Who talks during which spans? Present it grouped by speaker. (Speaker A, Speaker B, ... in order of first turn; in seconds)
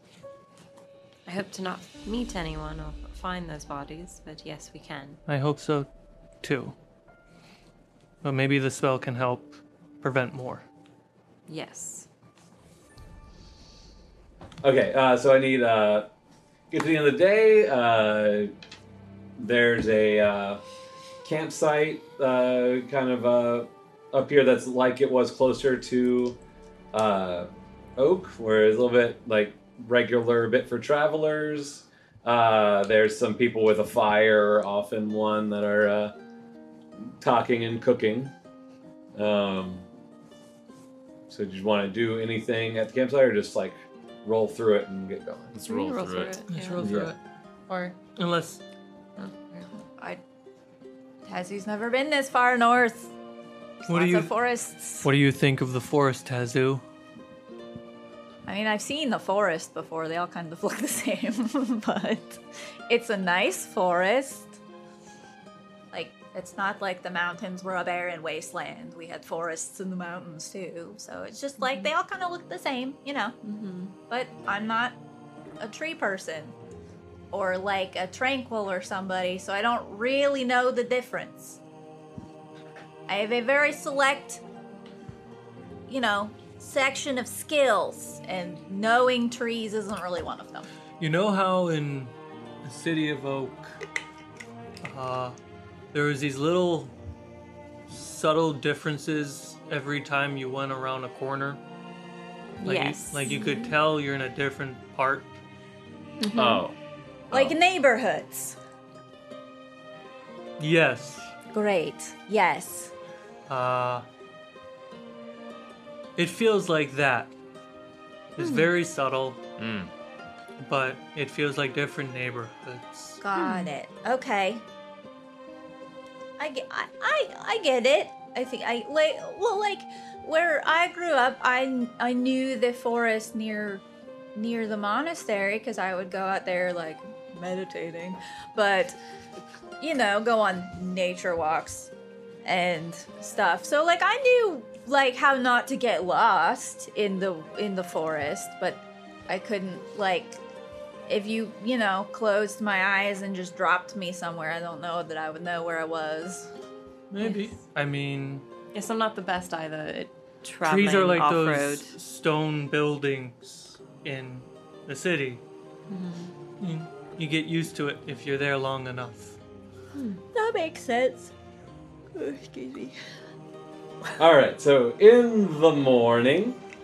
Speaker A: 1.3-5.2, 11.5-12.1, 45.6-46.9, 49.2-49.7, 71.6-71.9, 73.4-73.9, 102.6-103.8, 106.2-106.6, 118.4-118.7, 123.4-123.7, 157.2-157.6, 158.7-161.9, 165.9-166.3, 169.9-170.2
Speaker B: 5.3-5.9, 6.4-6.7, 8.2-10.6, 46.5-47.2, 47.7-48.6, 53.9-54.4, 55.0-56.8, 91.0-92.1, 92.6-93.7, 94.8-95.4, 95.9-96.9, 97.9-101.6, 102.6-105.3, 110.6-111.3, 113.5-114.1, 116.2-117.3, 118.4-119.4, 120.6-123.2, 157.1-158.4, 160.6-165.4, 166.6-169.4
Speaker C: 14.6-16.1, 16.7-18.5, 19.4-20.6, 21.2-26.4, 26.9-36.1, 37.2-38.3, 39.1-39.9, 41.3-45.5, 46.8-47.1, 174.2-176.6
Speaker D: 45.5-46.4, 106.3-106.7, 107.3-107.6, 119.6-119.9
Speaker E: 49.9-50.2, 51.3-53.1, 53.8-55.1, 58.4-64.6, 65.9-73.4, 74.0-75.0, 75.6-76.5, 77.3-81.6, 83.1-84.4, 85.9-90.7, 107.3-108.6, 111.5-112.9, 123.2-124.6, 126.4-133.8, 134.3-139.0, 139.8-141.9, 142.4-150.4, 151.1-156.5, 170.3-171.3, 172.1-173.0